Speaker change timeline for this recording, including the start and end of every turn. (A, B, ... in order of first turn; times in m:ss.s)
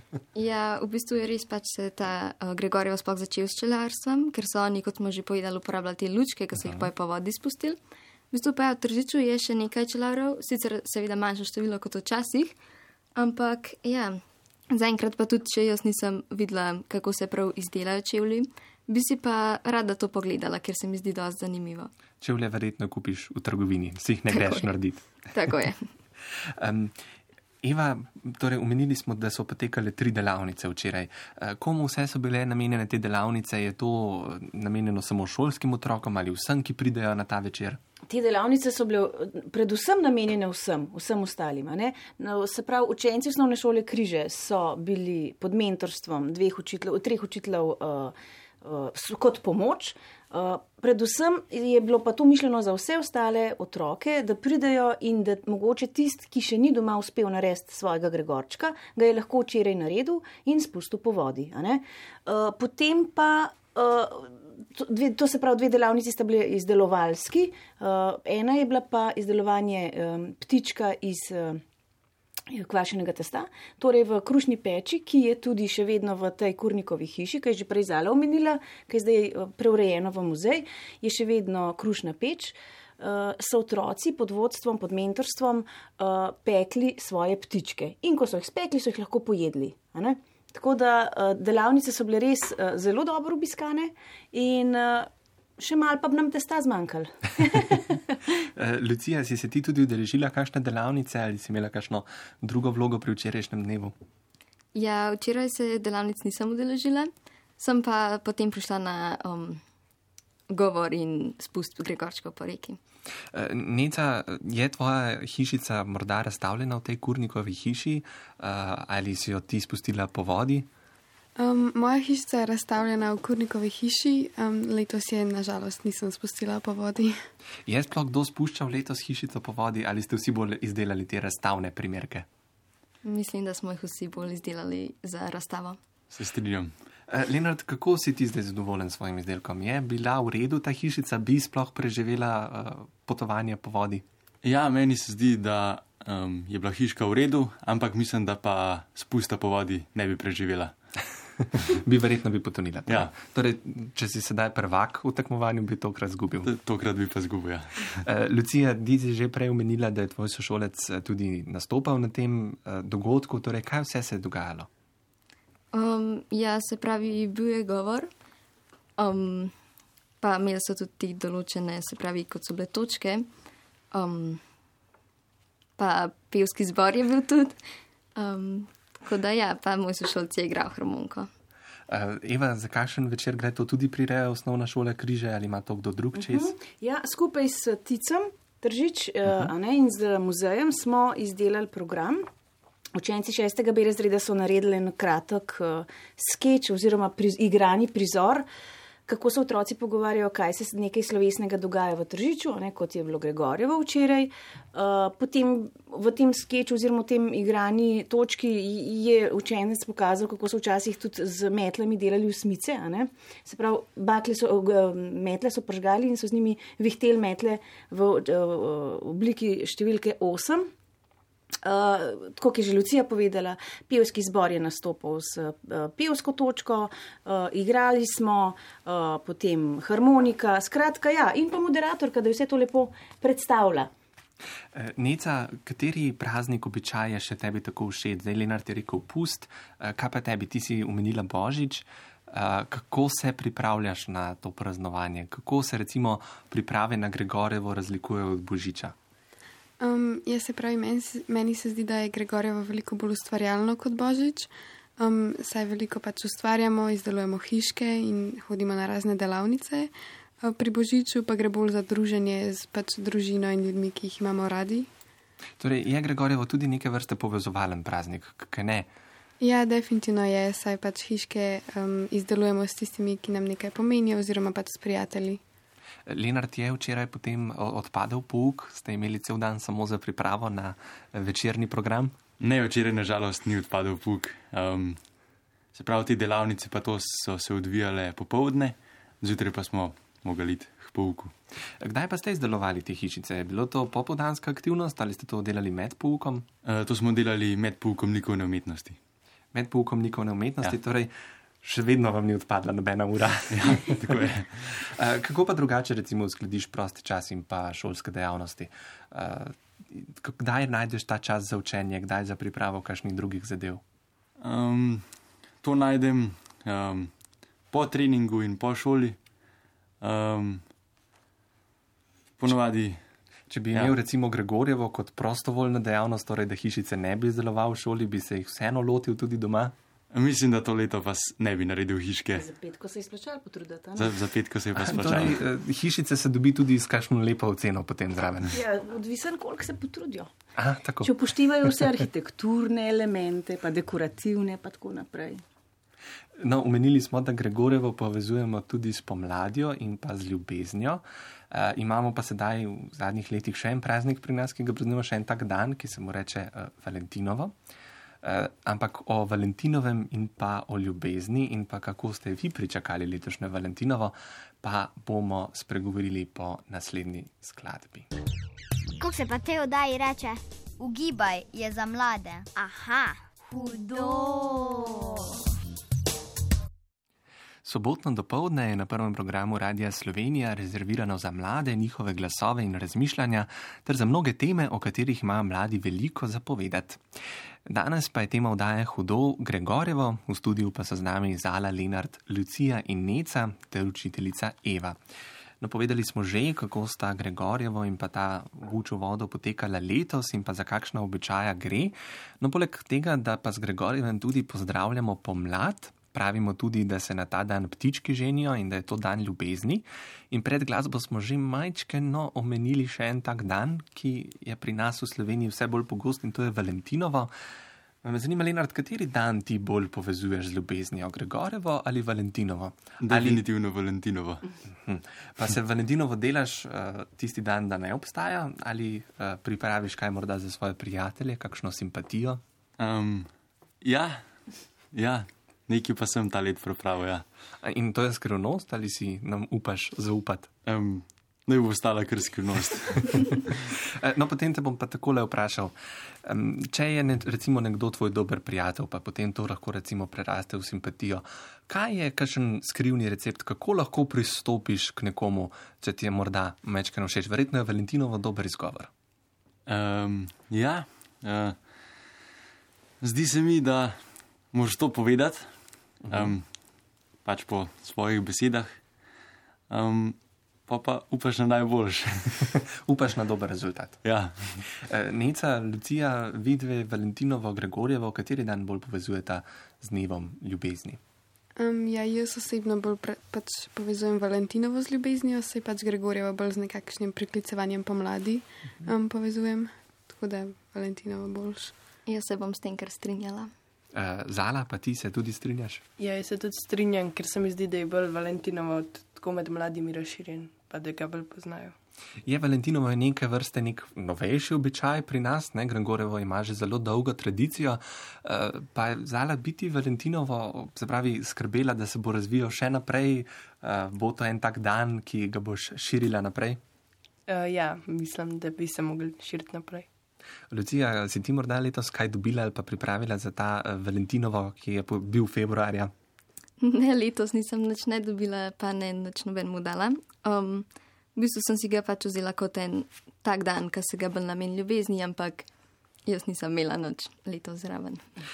0:00.4-0:07.8 A
0:06.6-0:06.9 B
0:08.3-0:12.6 A
0:13.2-0:21.9 A
0:22.2-0:25.0 B
0:24.3-0:24.7 A
0:25.3-0:25.9 A
0:26.4-0:27.0 B
0:27.6-0:37.8 B
0:38.1-1:11.6 C
1:12.5-1:38.2 C
1:38.6-1:44.0 B
1:44.8-1:49.6 A
1:50.5-1:52.8 A
1:53.3-2:00.7 B
2:01.4-2:07.2 D
2:07.7-2:12.3 B
2:13.0-2:15.8 A
2:16.1-2:16.7 E
2:17.1-2:24.0 B
2:24.4-2:30.7 E
2:31.4-2:36.5 B
2:32.9-2:33.2 E
2:36.4-2:38.0 E
2:38.0-2:44.7 B
2:45.7-2:48.1 A
2:49.0-2:49.5 A
2:50.2-2:53.3 A
2:53.9-2:54.4 A
2:55.8-2:57.6 A
2:58.2-3:01.3 A
3:01.9-3:06.5 B
3:06.2-3:12.3 C
3:13.0-3:18.5 C
3:19.1-3:40.7 C
3:41.6-3:53.9 C
3:54.7-4:09.0 B
4:09.8-4:24.9 D
4:25.6-4:28.9 B
4:29.4-4:35.4 D
4:36.1-4:42.2 B
4:42.4-4:45.0 E
4:45.7-4:51.3 E
4:51.8-4:56.5 B
4:56.6-4:59.0 E
4:59.5-5:13.8 B
5:03.5-5:04.8 E
5:14.4-5:17.1 E
5:17.7-5:19.2 E
5:20.0-5:20.7 E
5:22.4-5:23.0 E
5:23.5-5:29.8 B
5:30.1-5:32.5 E
5:32.4-5:34.2 C
5:34.0-5:35.4 E
5:34.8-5:38.6 B
5:38.5-5:40.3 C
5:40.6-5:41.8 B
5:41.0-5:45.4 C
5:46.4-5:57.5 B
5:58.2-6:08.1 B
6:09.0-6:15.3 F
6:17.6-6:27.0 B
6:27.6-6:35.0 B
6:35.6-6:57.3 B
6:58.0-7:03.4 B
7:03.0-7:04.5 E
7:04.7-7:12.4 B
7:12.8-7:14.4 E
7:14.9-7:17.2 E
7:17.6-7:20.5 B
7:20.7-7:23.6 E
7:23.7-7:38.9 B
7:39.7-7:41.9 E
7:43.0-7:46.6 E
7:46.0-7:46.4 B
7:47.2-7:48.9 E
7:49.7-7:52.6 E
7:52.8-7:54.1 B
7:54.0-7:54.7 E
7:54.7-8:01.0 B
8:01.6-8:11.7 D
8:12.1-8:13.5 A
8:13.9-8:15.8 B
8:16.0-8:21.8 G
8:22.3-8:36.6 B
8:37.3-8:39.9 G
8:40.5-8:45.9 B
8:46.6-8:55.5 A
8:56.1-8:58.0 A